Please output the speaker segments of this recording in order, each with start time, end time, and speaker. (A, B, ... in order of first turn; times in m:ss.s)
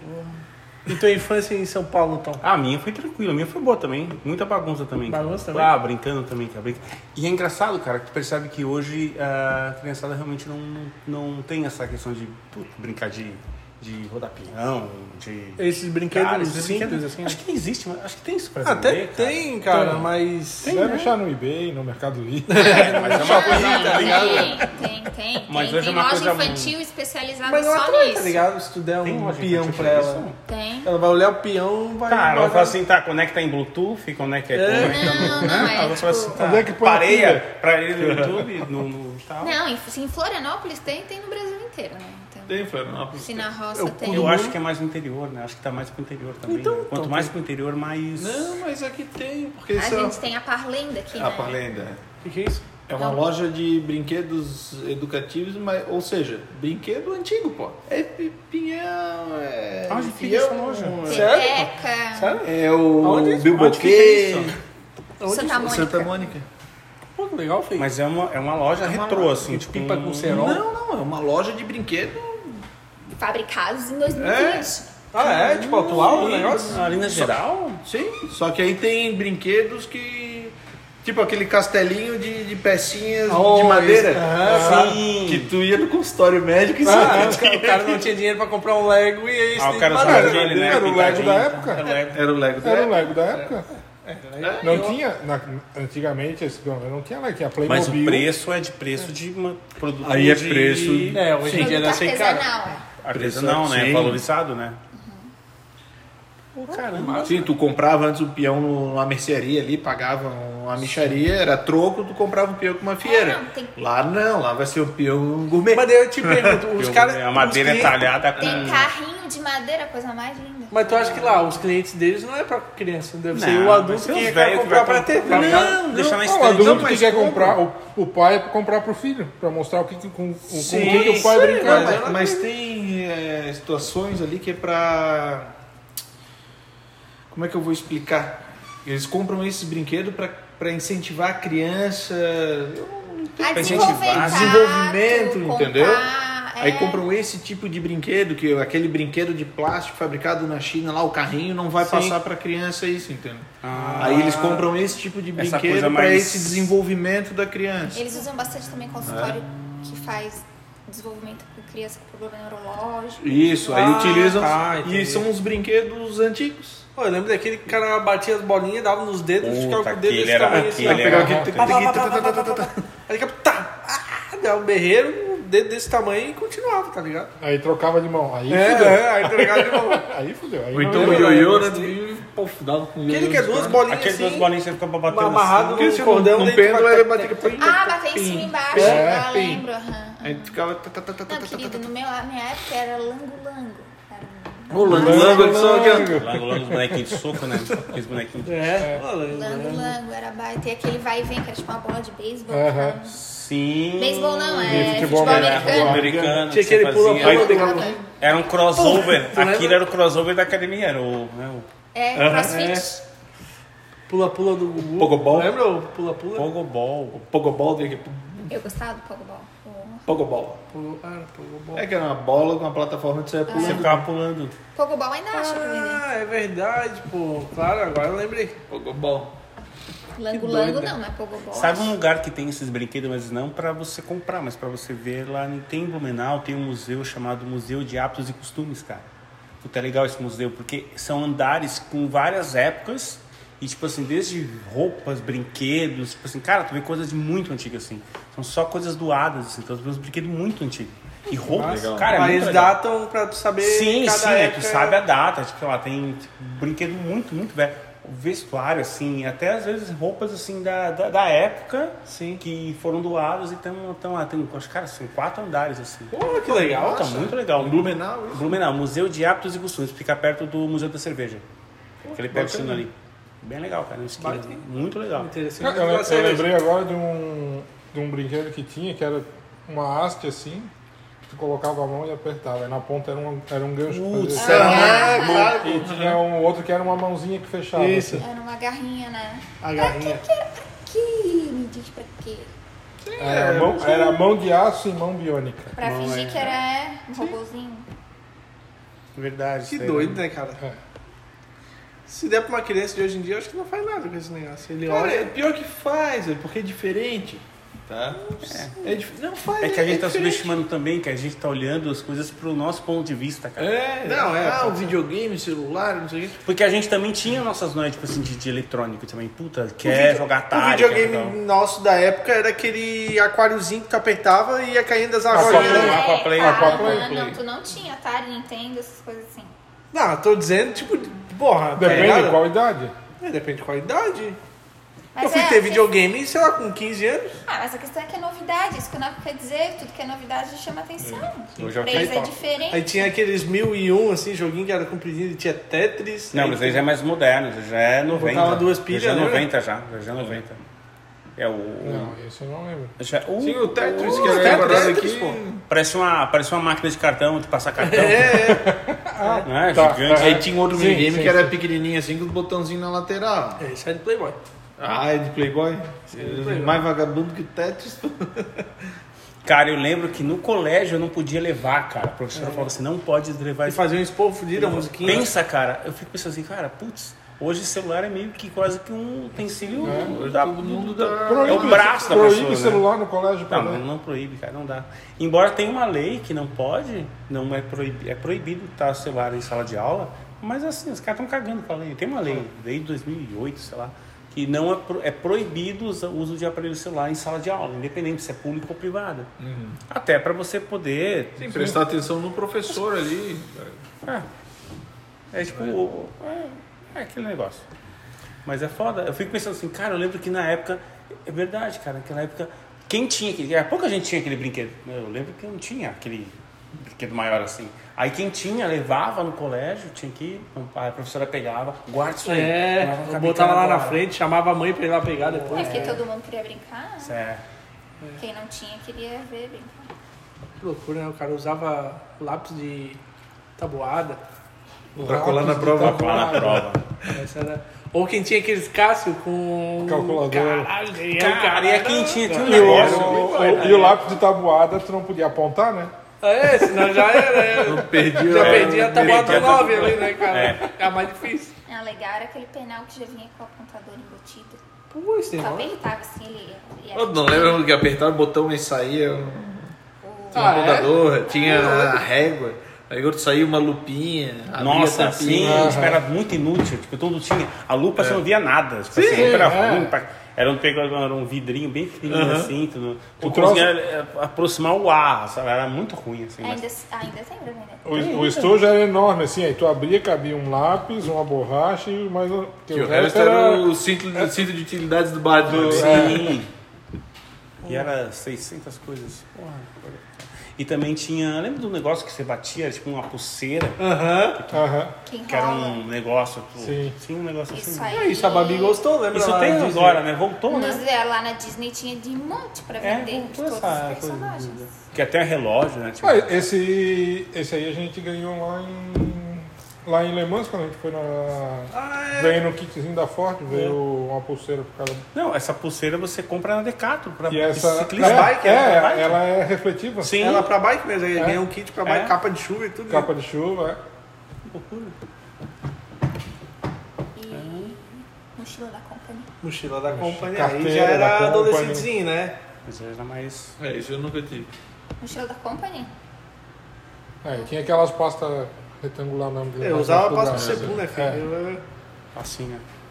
0:00.9-0:02.4 A
0:02.4-0:19.5 B
0:05.1-0:05.7 A
0:15.6-0:17.4 A
0:18.6-0:21.0 A
0:19.7-0:20.1 C
0:20.6-0:23.4 C
0:22.5-0:24.7 A
0:22.6-0:24.7 B
0:22.9-0:28.4 D
0:23.7-0:24.4 E
0:25.5-0:26.8 B
0:27.5-0:30.3 A
0:29.0-0:30.4 B
0:30.5-0:30.9 D
0:30.8-0:32.8 A
0:32.1-0:39.6 B
0:34.5-0:35.3 A
0:34.7-0:36.4 D
0:35.3-0:35.6 C
0:36.4-0:37.5 C
0:39.4-0:44.4 D
0:42.5-0:43.5 E
0:43.7-0:44.6 A
0:44.1-0:48.6 B
0:46.5-0:47.3 A
0:48.2-0:50.2 E
0:49.7-0:51.6 D
0:51.1-0:52.0 E
0:52.2-0:52.6 A
0:52.9-1:01.5 E
0:53.0-0:53.2 D
0:59.9-1:01.0 B
1:01.1-1:02.4 D
1:01.1-1:02.5 A
1:02.4-1:04.6 E
1:03.0-1:03.8 A
1:03.6-1:04.6 B
1:05.2-1:05.9 A
1:05.2-1:06.3 D
1:05.5-1:06.5 E
1:07.2-1:07.9 A
1:07.8-1:10.5 B
1:08.8-1:09.4 E
1:09.5-1:10.6 A
1:10.3-1:12.6 E
1:13.2-1:14.9 D
1:14.1-1:14.7 E
1:15.1-1:16.8 A
1:15.2-1:17.8 B
1:15.4-1:28.1 E
1:23.3-1:24.9 A
1:24.5-1:25.5 B
1:24.5-1:24.8 C
1:26.8-1:30.5 A
1:26.9-1:27.4 C
1:29.6-1:32.2 B
1:30.0-1:31.8 C
1:30.2-1:31.4 E
1:32.1-1:33.2 E
1:32.6-1:33.6 C
1:33.3-1:35.0 A
1:34.4-1:34.9 E
1:34.6-1:38.3 C
1:37.6-1:41.2 B
1:40.0-1:41.9 E
1:41.1-1:42.5 A
1:41.5-1:42.9 D
1:43.0-1:44.8 B
1:43.1-1:44.2 E
1:44.9-1:45.3 D
1:46.6-1:47.5 B
1:46.7-1:47.5 A
1:47.3-1:56.6 E
1:53.0-1:53.7 D
1:55.7-1:58.0 A
1:56.8-1:58.9 B
1:58.4-2:01.5 D
2:00.7-2:05.8 A
2:03.3-2:07.2 B
2:05.3-2:07.6 E
2:06.2-2:12.0 C
2:10.5-2:15.6 E
2:10.6-2:12.5 A
2:17.3-2:38.2 E
2:23.4-2:27.0 D
2:23.5-2:24.6 B
2:31.8-2:32.2 A
2:33.6-2:34.6 B
2:33.7-2:34.7 A
2:35.4-2:36.7 B
2:37.9-2:44.4 D
2:39.0-2:39.5 E
2:43.2-2:46.9 E
2:43.7-2:45.2 A
2:44.3-2:44.8 B
2:47.0-2:57.3 A
2:49.4-2:51.8 B
2:50.8-2:52.8 E
2:51.2-2:51.5 C
2:57.4-3:01.5 C
2:58.5-3:00.1 A
3:00.7-3:03.9 E
3:00.8-3:02.0 A
3:03.1-3:04.5 A
3:03.9-3:05.8 B
3:05.1-3:07.7 A
3:05.8-3:09.7 E
3:07.6-3:10.6 D
3:08.8-3:09.1 A
3:08.9-3:09.3 C
3:10.2-3:11.9 E
3:11.3-3:16.1 D
3:14.7-3:16.1 E
3:14.8-3:17.2 C
3:16.0-3:18.9 B
3:18.5-3:20.0 A
3:19.2-3:23.2 D
3:22.5-3:23.0 C
3:23.1-3:31.7 B
3:24.0-3:26.0 D
3:24.6-3:26.3 C
3:25.8-3:27.9 A
3:25.8-3:26.3 E
3:27.2-3:28.1 D
3:27.2-3:28.0 E
3:28.8-3:29.8 A
3:28.8-3:29.0 D
3:31.9-3:33.0 D
3:32.1-3:32.9 E
3:34.1-3:36.5 A
3:34.9-3:35.6 E
3:36.4-3:37.2 B
3:37.1-3:38.6 E
3:38.5-3:40.1 D
3:40.1-3:40.6 E
3:40.7-3:41.9 A
3:41.7-3:44.1 E
3:43.5-3:43.9 D
3:43.5-3:44.6 B
3:44.7-3:46.0 D
3:45.3-3:48.6 A
3:48.7-3:49.3 E
3:50.2-3:52.0 D
3:50.3-3:51.0 A
3:51.5-3:59.1 B
3:59.6-4:12.8 B
4:11.4-4:15.0 A
4:11.6-4:12.3 E
4:13.6-4:26.1 B
4:22.1-4:22.4 A
4:26.1-4:27.1 A
4:26.4-4:28.6 E
4:26.8-4:31.4 B
4:32.1-4:35.3 B
4:32.3-4:32.8 E
4:34.2-4:34.6 A
4:35.1-4:36.5 A
4:35.6-4:40.7 C
4:41.3-4:44.9 C
4:43.9-4:45.6 B
4:44.4-4:45.7 D
4:44.4-4:46.2 E
4:45.5-4:48.2 C
4:47.8-4:48.2 A
4:48.2-4:52.5 D
4:49.6-4:50.2 A
4:53.0-4:54.2 E
4:53.2-4:55.8 C
4:55.8-4:57.9 D
4:55.8-4:56.6 B
4:59.2-5:00.2 B
4:59.7-5:00.6 A
5:02.1-5:05.3 A
5:04.9-5:10.6 E
5:08.4-5:08.9 B
5:09.6-5:13.7 B
5:13.6-5:16.4 E
5:14.0-5:15.0 A
5:16.4-5:21.4 B
5:19.9-5:26.0 A
5:25.3-5:27.1 C
5:25.3-5:27.4 B
5:25.4-5:29.5 D
5:29.9-5:32.4 A
5:31.8-5:32.9 C
5:31.8-5:32.2 B
5:33.2-5:34.4 A
5:35.1-5:35.9 D
5:35.2-5:37.4 A
5:37.5-5:43.1 D
5:41.0-5:41.7 E
5:41.6-5:42.3 B
5:41.9-5:46.8 A
5:46.3-5:50.6 B
5:48.1-5:49.5 A
5:51.4-5:52.2 B
5:51.8-5:52.9 C
5:53.0-5:55.0 B
5:53.4-5:55.6 E
5:54.0-5:55.4 A
5:55.7-5:58.6 B
5:57.8-5:58.7 A
5:58.3-6:01.6 C
5:59.2-5:59.5 A
5:59.4-6:00.5 B
6:00.1-6:03.6 E
6:03.6-6:04.4 A
6:04.8-6:08.7 E
6:06.1-6:06.8 A
6:09.4-6:13.9 B
6:12.4-6:12.7 A
6:13.7-6:15.3 A
6:14.6-6:22.9 B
6:19.7-6:22.4 E
6:19.8-6:20.2 C
6:21.2-6:23.8 C
6:23.5-6:39.3 B
6:39.4-6:39.8 E
6:39.9-6:41.8 B
6:41.4-6:43.8 E
6:45.3-6:47.7 B
6:48.4-7:04.0 B
7:02.2-7:06.0 A
7:05.5-7:05.9 B
7:05.5-7:07.2 D
7:07.0-7:07.4 B
7:08.2-7:09.9 D
7:10.6-7:13.0 A
7:13.6-7:14.2 A
7:15.0-7:17.2 E
7:15.0-7:16.7 C
7:15.7-7:16.8 B
7:17.1-7:23.7 A
7:19.8-7:20.7 C
7:21.0-7:23.9 B
7:22.4-7:25.9 C
7:22.5-7:23.9 E
7:26.2-7:31.6 A
7:27.6-7:29.7 E
7:28.3-7:30.7 B
7:31.7-7:34.6 D
7:34.9-7:35.7 A
7:35.4-7:37.7 D
7:36.9-7:39.7 E
7:40.0-7:40.8 D
7:40.3-7:41.9 A
7:40.3-7:45.8 E
7:41.4-7:41.9 D
7:44.6-7:56.6 B
7:45.4-7:46.0 C
7:48.0-7:48.2 E
7:48.9-7:49.5 E
7:49.1-7:49.9 C
7:52.1-7:52.5 E
7:53.2-7:53.7 C
7:56.4-7:58.3 D
7:57.8-8:04.3 C
7:57.9-7:58.5 B
8:02.7-8:06.3 E
8:05.5-8:06.5 B
8:05.5-8:06.2 C
8:05.8-8:06.3 A
8:07.6-8:13.8 B
8:13.8-8:14.4 A
8:14.4-8:14.6 B
8:14.5-8:14.9 C
8:15.0-8:15.8 D
8:15.3-8:17.9 B
8:16.6-8:17.0 C
8:17.5-8:18.8 D
8:17.9-8:20.0 A
8:19.1-8:20.8 B
8:20.5-8:24.7 D
8:22.8-8:26.5 B
8:26.0-8:35.1 C
8:31.7-8:32.4 A
8:33.5-8:33.8 A
8:35.1-8:39.2 B
8:37.3-8:40.3 C
8:38.0-8:39.1 A
8:40.0-8:40.5 B
8:40.2-8:43.1 A
8:41.9-8:42.2 B
8:42.9-8:43.8 C
8:44.5-8:45.0 B
8:47.2-8:49.3 D
8:47.3-8:47.8 B
8:49.4-8:52.4 A
8:49.9-8:51.9 C
8:52.7-8:53.6 B
8:53.6-8:54.5 E
8:55.0-8:55.9 D
8:57.2-9:01.2 C
8:59.6-9:01.6 A
9:00.3-9:00.8 E
9:02.2-9:02.6 B